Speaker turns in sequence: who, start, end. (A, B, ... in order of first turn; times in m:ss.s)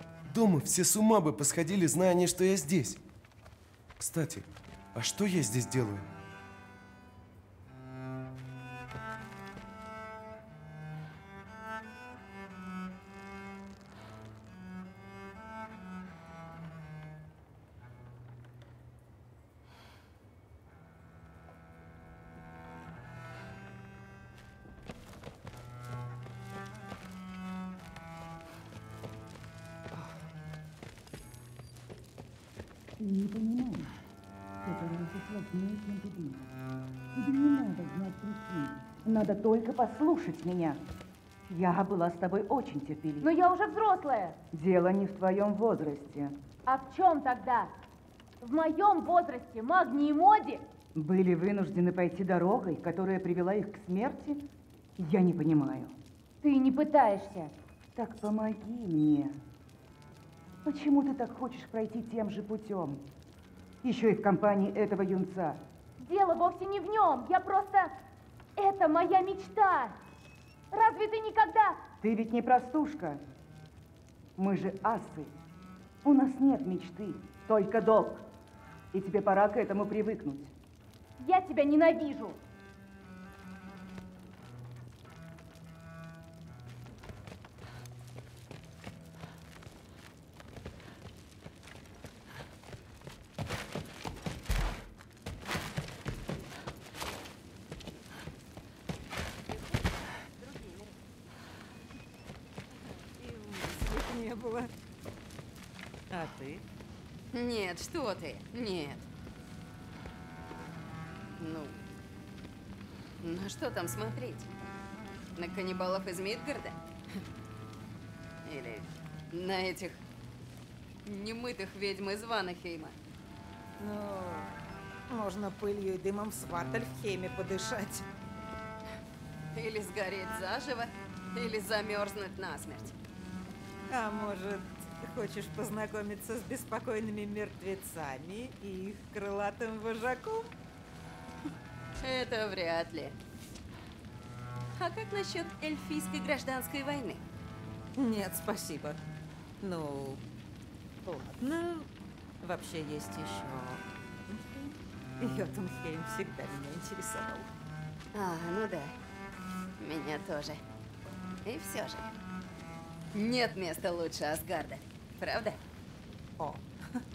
0:00.3-0:03.0 A
0:04.0-0:06.1 A
0:33.0-0:33.9 B
0:34.6-0:36.5 B
0:37.1-0:40.8 B
0:41.5-0:43.3 B
0:43.2-0:44.4 C
0:44.5-0:46.4 B
0:46.7-0:47.7 C
0:48.4-0:50.6 C
0:51.0-0:54.5 B
0:55.0-0:56.0 B
0:56.4-0:57.5 C
0:58.0-0:59.4 B
1:00.6-1:03.0 B
1:03.8-1:05.6 B
1:06.0-1:07.9 C
1:08.6-1:10.0 C
1:10.7-1:11.8 C
1:12.0-1:13.2 B
1:14.4-1:15.3 B
1:16.0-1:18.3 B
1:18.9-1:20.5 B
1:21.2-1:22.4 C
1:43.2-1:44.7 D
1:46.1-1:46.6 D
1:47.3-1:49.1 E
1:51.4-1:51.8 E
1:53.2-1:54.5 E
1:55.4-1:56.8 E
1:58.4-2:00.0 E
2:01.1-2:02.9 E
2:03.8-2:04.5 D
2:05.1-2:08.1 D
2:09.5-2:12.9 E
2:13.9-2:20.5 D
2:22.0-2:23.2 E
2:24.8-2:27.2 E
2:28.0-2:29.0 D
2:29.6-2:30.2 D
2:31.1-2:31.9 D
2:32.4-2:37.5 D
2:38.1-2:38.9 E
2:39.8-2:40.6 E
2:41.4-2:42.2 E
2:43.1-2:45.6 E